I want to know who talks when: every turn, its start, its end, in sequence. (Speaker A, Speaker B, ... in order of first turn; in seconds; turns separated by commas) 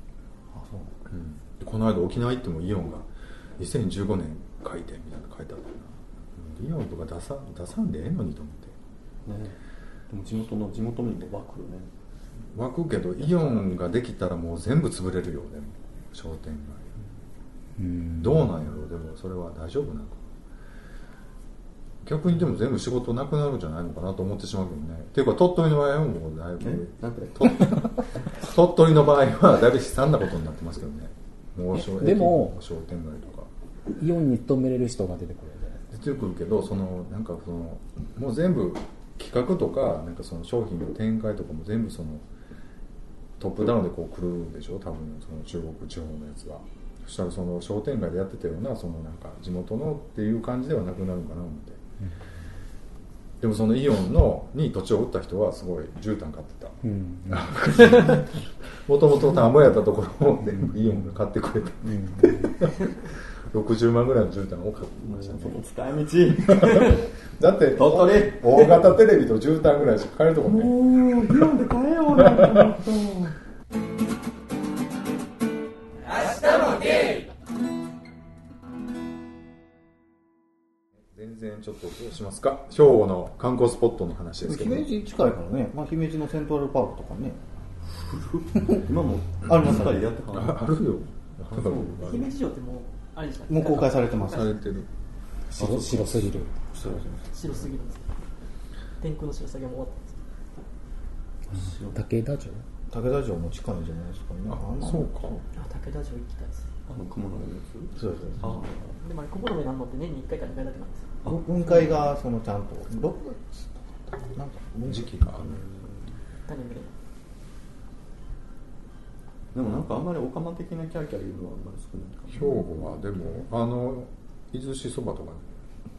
Speaker A: 0.5-0.9, Speaker B: 1.1-8.7, Speaker C: 9.2-9.6, Speaker C: 10.1-11.9, Speaker B: 12.5-16.9, Speaker C: 13.2-13.7, Speaker D: 17.8-18.5, Speaker B: 18.2-20.2, Speaker B: 22.0-33.5, Speaker C: 26.6-27.8, Speaker D: 31.7-32.6, Speaker D: 34.0-35.8, Speaker B: 35.9-42.2, Speaker B: 43.4-51.8, Speaker B: 53.4-65.6, Speaker D: 56.8-58.1, Speaker D: 61.9-62.5, Speaker C: 65.0-67.0, Speaker B: 66.5-70.7, Speaker C: 67.7-69.0, Speaker C: 70.4-73.3, Speaker B: 81.1-84.9, Speaker A: 84.4-87.4, Speaker C: 87.9-90.7, Speaker A: 89.5-90.1, Speaker B: 89.5-89.8, Speaker B: 90.3-92.3, Speaker C: 91.5-92.3, Speaker E: 92.0-94.5, Speaker A: 93.5-94.6, Speaker B: 94.1-94.9, Speaker D: 95.5-96.6, Speaker C: 95.6-97.1, Speaker E: 97.3-98.1, Speaker E: 99.0-100.2, Speaker C: 101.5-102.0, Speaker D: 101.5-102.6, Speaker A: 102.9-105.4, Speaker B: 104.5-105.4, Speaker E: 105.6-106.7, Speaker C: 106.9-108.9, Speaker A: 108.0-108.6, Speaker E: 109.0-111.1, Speaker A: 111.2-115.2, Speaker B: 114.9-115.7, Speaker C: 115.4-116.1, Speaker E: 116.5-116.9, Speaker C: 119.5-123.4, Speaker B: 122.3-125.6